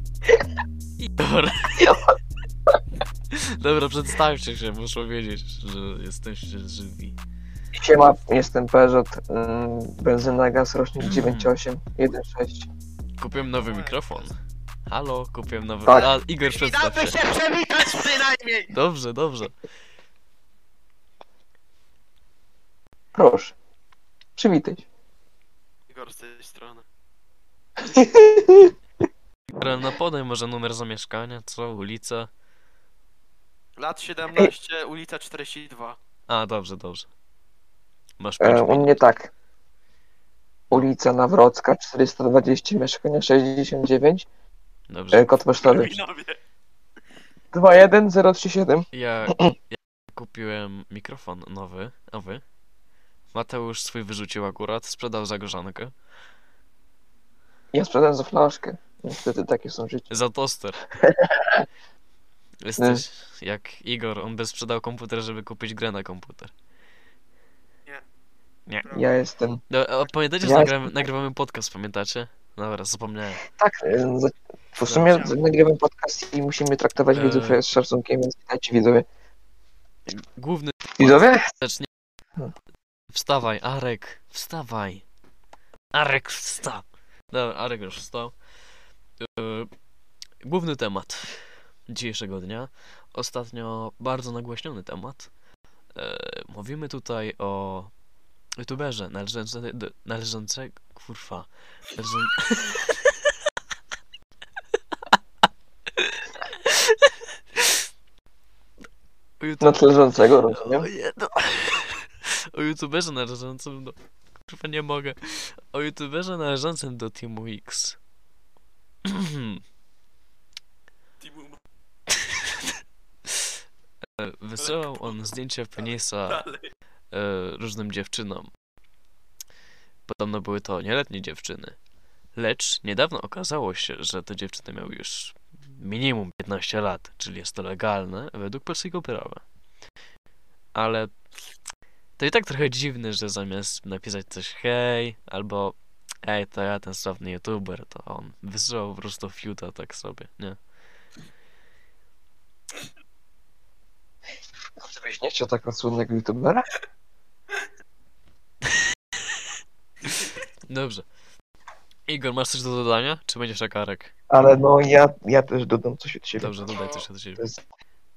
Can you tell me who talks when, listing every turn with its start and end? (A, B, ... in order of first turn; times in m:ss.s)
0:01.0-0:02.0 A
0:03.3-0:07.2 A
0:07.7-0:12.7 B
0:11.0-0:11.5 A
0:13.2-0:14.3 A
0:13.5-0:14.3 C
0:14.9-0:17.2 A
0:15.9-0:18.7 C
0:18.7-0:19.5 A
0:23.1-0:23.5 B
0:24.4-0:24.8 B
0:25.9-0:26.8 C
0:27.8-0:28.7 B
0:29.6-0:32.3 A
0:33.8-0:36.0 C
0:36.3-0:37.1 A
0:38.2-0:39.0 A
0:38.4-0:39.3 B
0:40.7-0:44.3 B
0:44.9-0:45.4 A
0:45.1-0:46.0 B
0:45.6-0:46.4 C
0:47.5-0:49.5 B
0:48.9-0:52.4 A
0:53.3-0:55.9 A
0:57.7-1:00.1 B
1:00.1-1:00.9 A
1:01.0-1:01.6 B
1:02.6-1:06.5 A
1:02.8-1:03.0 B
1:08.8-1:09.2 C
1:08.9-1:09.6 B
1:09.7-1:13.4 A
1:10.4-1:11.1 B
1:13.5-1:19.0 B
1:14.8-1:15.3 A
1:14.9-1:15.4 C
1:17.1-1:17.6 A
1:20.1-1:21.9 A
1:21.0-1:21.5 B
1:23.1-1:25.0 A
1:25.9-1:28.3 A
1:29.2-1:29.7 A
1:30.4-1:31.4 A
1:31.9-1:35.3 A
1:35.9-1:37.9 A
1:38.6-1:43.3 A
1:45.9-1:47.8 A
1:49.4-1:50.0 A
1:49.6-1:50.9 B
1:50.5-1:58.0 A
1:59.0-1:59.6 A
2:01.2-2:01.6 C
2:02.1-2:02.7 A
2:03.3-2:03.5 A
2:04.2-2:06.4 A
2:04.6-2:05.2 C
2:05.8-2:06.7 C
2:07.1-2:08.5 A
2:10.1-2:11.8 A
2:12.4-2:19.4 A
2:20.7-2:21.1 A
2:22.2-2:30.6 A
2:34.8-2:36.6 B
2:40.2-2:41.0 A
2:42.1-2:44.1 A
2:44.3-2:46.6 B
2:46.4-2:47.4 A
2:46.7-2:47.0 C